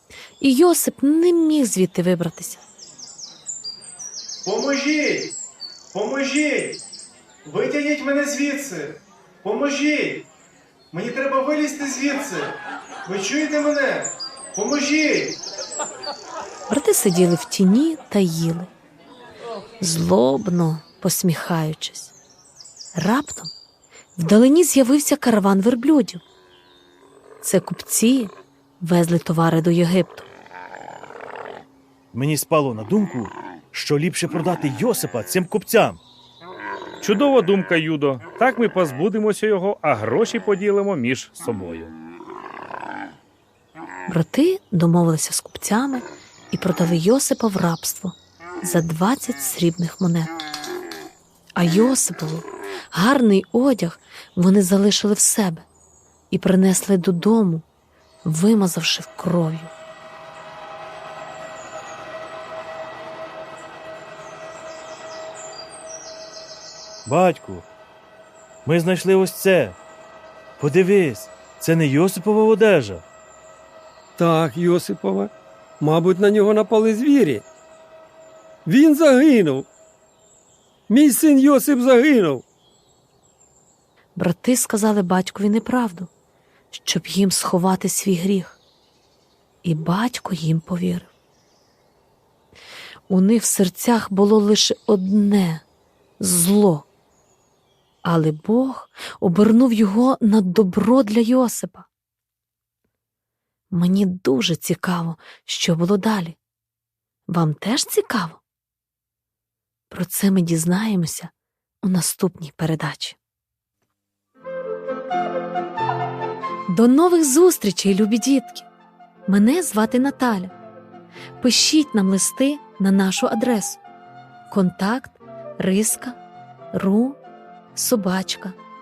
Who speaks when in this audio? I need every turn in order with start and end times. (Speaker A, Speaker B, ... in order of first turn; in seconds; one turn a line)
Speaker A: 0.4-2.6
Speaker B: 4.4-5.3
Speaker B: 5.9-6.8
Speaker B: 7.4-10.2
Speaker B: 10.9-15.4
Speaker A: 16.7-18.7
Speaker A: 19.8-22.1
Speaker A: 22.9-23.5
Speaker A: 24.1-26.2
Speaker A: 27.4-30.3
Speaker C: 32.1-36.0
Speaker D: 37.0-41.9
Speaker A: 44.1-50.4
Speaker A: 51.5-55.6
Speaker A: 56.3-57.6
Speaker A: 58.2-59.7
Speaker C: 67.0-67.7
Speaker C: 68.6-69.8
Speaker C: 70.6-73.0
Speaker E: 74.2-77.4
Speaker E: 78.7-79.7
Speaker E: 80.9-82.4
Speaker A: 84.1-86.1
Speaker A: 86.7-88.6
Speaker A: 89.6-91.1
Speaker A: 93.1-95.6
Speaker A: 96.2-96.9
Speaker A: 98.0-101.9
Speaker A: 103.7-106.4
Speaker A: 107.3-108.4
Speaker A: 109.9-113.2
Speaker A: 116.7-118.7
Speaker A: 119.3-120.5
Speaker A: 121.4-123.8
Speaker A: 124.5-126.2
Speaker A: 126.7-127.2
Speaker A: 127.7-128.6